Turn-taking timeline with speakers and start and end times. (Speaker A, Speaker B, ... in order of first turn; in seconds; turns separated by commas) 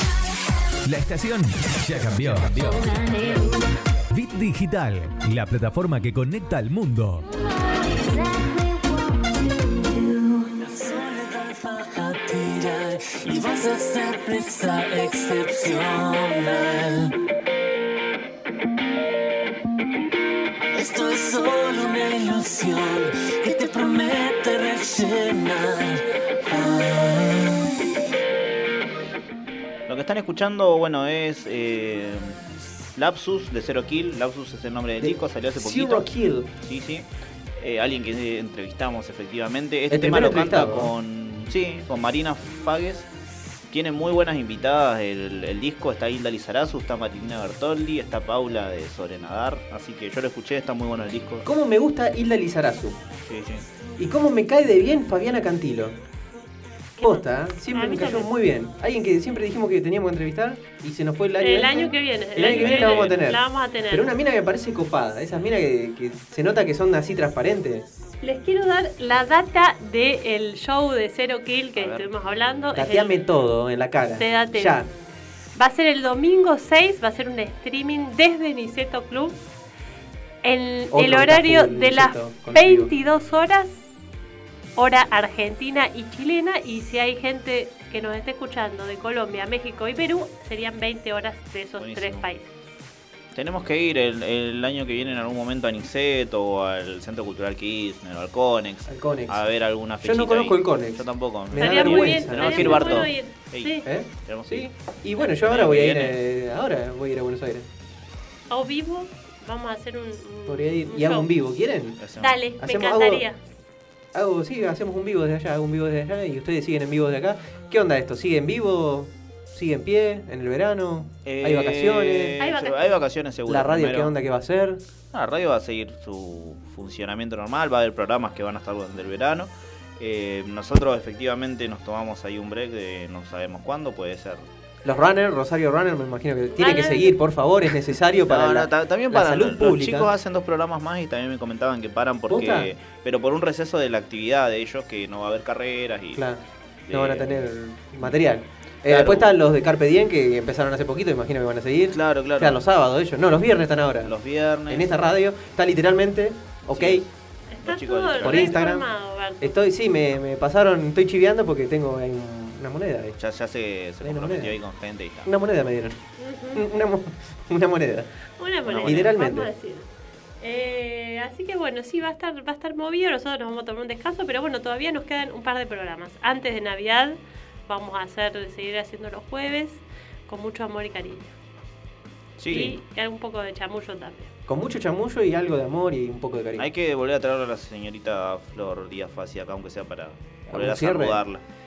Speaker A: 0.8-3.6, Speaker B: 3.0-3.6, Speaker A: 4.1-7.2, Speaker B: 7.7-17.1, Speaker B: 20.7-27.7, Speaker C: 29.9-32.4, Speaker C: 33.0-36.1, Speaker D: 35.0-36.5, Speaker C: 36.6-43.1, Speaker D: 39.9-40.9, Speaker C: 43.7-51.5, Speaker D: 51.4-53.0, Speaker C: 53.2-53.6, Speaker D: 54.0-56.0, Speaker E: 57.0-58.3, Speaker D: 57.0-67.9, Speaker E: 61.4-64.1, Speaker C: 62.4-63.2, Speaker E: 68.2-73.2, Speaker C: 71.8-72.1, Speaker D: 72.7-74.9, Speaker E: 74.2-74.8, Speaker E: 75.5-79.4, Speaker E: 80.4-83.9, Speaker D: 80.9-82.9, Speaker E: 84.8-92.5, Speaker C: 91.8-92.2, Speaker C: 93.3-104.7, Speaker D: 98.9-99.4, Speaker D: 100.0-103.1, Speaker E: 101.6-103.8, Speaker D: 103.8-107.7, Speaker C: 105.3-106.2, Speaker E: 108.5-111.3, Speaker D: 110.5-112.0, Speaker C: 112.0-112.4, Speaker E: 112.2-113.4, Speaker D: 112.6-113.2, Speaker D: 114.1-122.3, Speaker C: 121.2-124.1, Speaker E: 122.4-123.0, Speaker D: 123.5-124.8, Speaker C: 125.1-134.5, Speaker D: 134.8-140.1, Speaker E: 136.6-137.1, Speaker C: 138.3-146.2, Speaker D: 142.3-142.7, Speaker D: 146.2-154.1, Speaker C: 146.9-147.4, Speaker C: 148.8-149.3, Speaker C: 151.9-152.6, Speaker C: 154.0-154.9, Speaker D: 154.7-157.0, Speaker C: 156.7-157.1, Speaker E: 157.5-159.5, Speaker C: 157.6-158.6, Speaker D: 158.2-158.9, Speaker D: 159.4-163.2, Speaker C: 163.2-165.3, Speaker D: 164.0-164.6, Speaker D: 165.2-166.0, Speaker E: 166.2-166.7, Speaker D: 166.5-168.1, Speaker E: 168.4-169.9, Speaker C: 168.7-169.2, Speaker D: 168.8-169.5, Speaker E: 170.4-181.3, Speaker C: 182.4-182.8, Speaker E: 182.5-184.3, Speaker D: 184.5-186.7, Speaker C: 186.6-191.4, Speaker D: 190.5-191.2